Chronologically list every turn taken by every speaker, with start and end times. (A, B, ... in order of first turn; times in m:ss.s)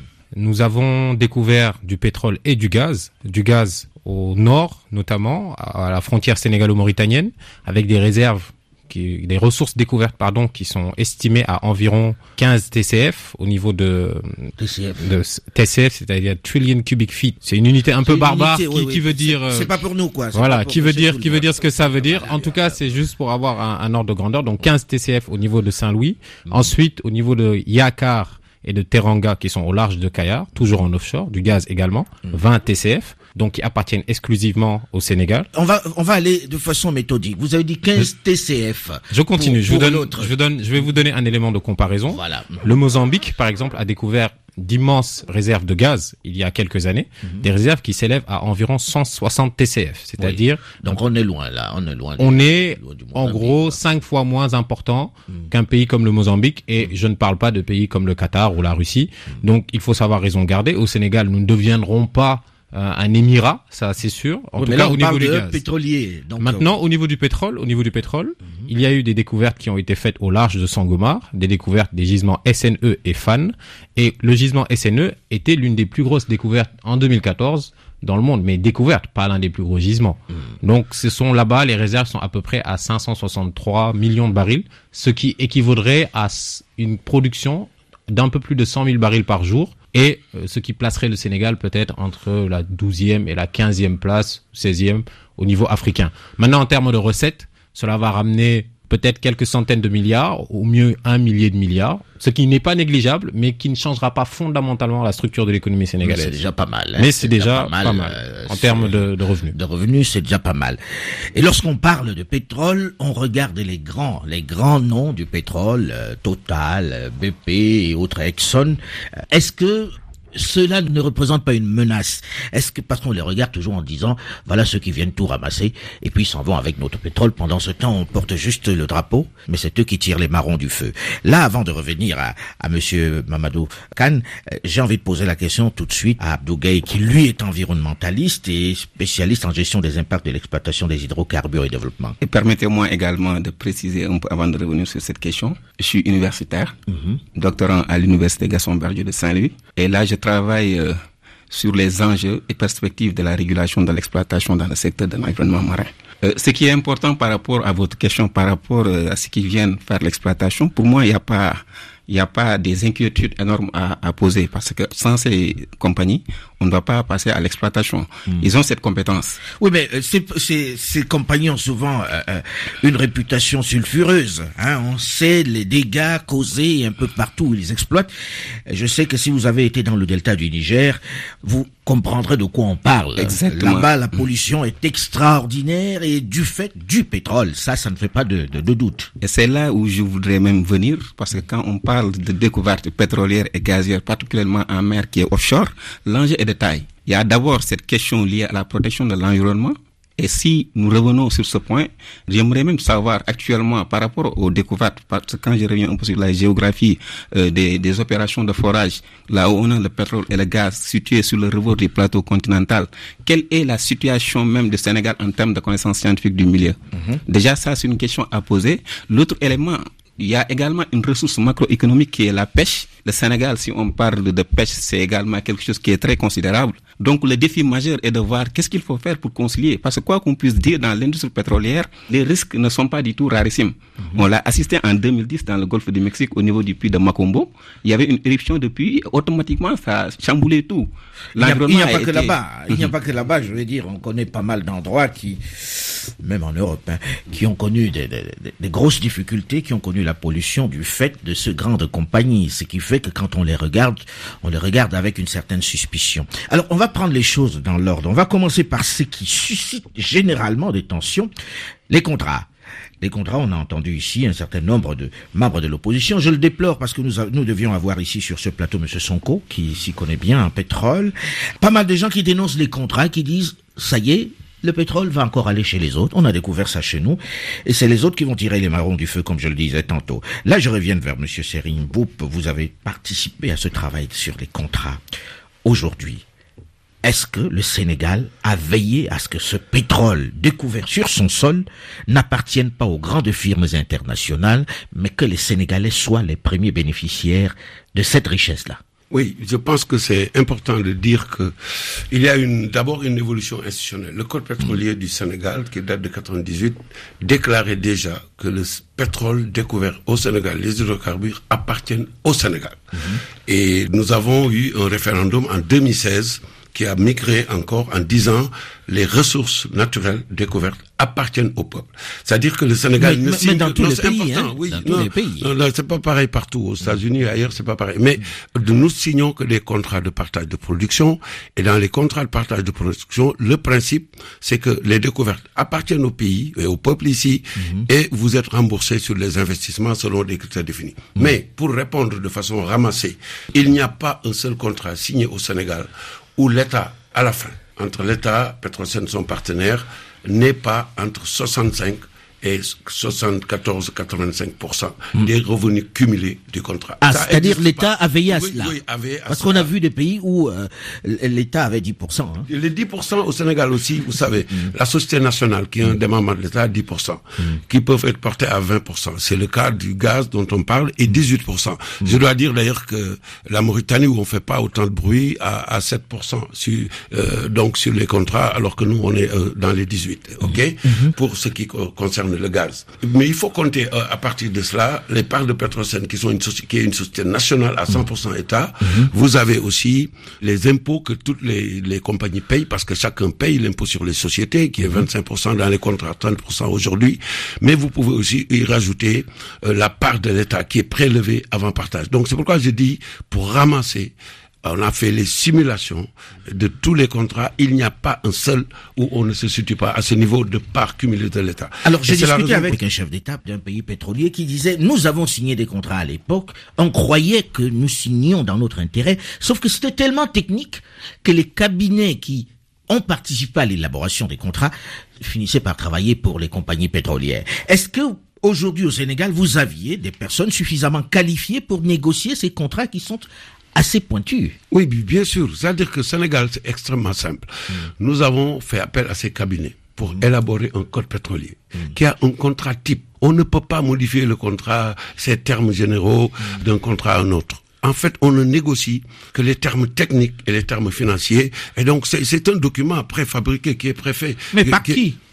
0:00.3-0:14.3 A
0:14.6-0:15.0 B
0:15.0-0:19.7 A
0:18.0-0:22.8 B
0:20.3-0:35.5 A
0:35.5-0:40.3 B
0:39.1-0:50.8 A
0:42.1-0:42.7 B
0:50.2-0:53.8 B
0:52.2-1:05.6 A
1:04.6-1:06.7 B
1:06.4-1:46.4 A
1:46.0-2:22.2 B
1:47.0-1:49.6 A
2:22.2-2:26.7 C
2:26.9-2:27.2 B
2:27.3-2:49.4 C
2:49.5-2:58.1 B
2:58.7-3:09.1 B
3:03.2-3:03.9 C
3:09.2-4:02.8 C
4:01.4-4:21.3 B
4:21.9-4:22.5 B
4:23.0-4:45.0 B
4:45.6-4:46.3 B
4:47.0-4:58.8 B
4:59.1-5:59.7 D
5:23.0-5:25.5 B
5:57.0-6:02.5 B
6:02.5-6:52.8 D
6:28.8-6:29.1 B
6:51.8-7:14.6 B
7:14.7-7:35.0 D
7:34.5-7:35.2 B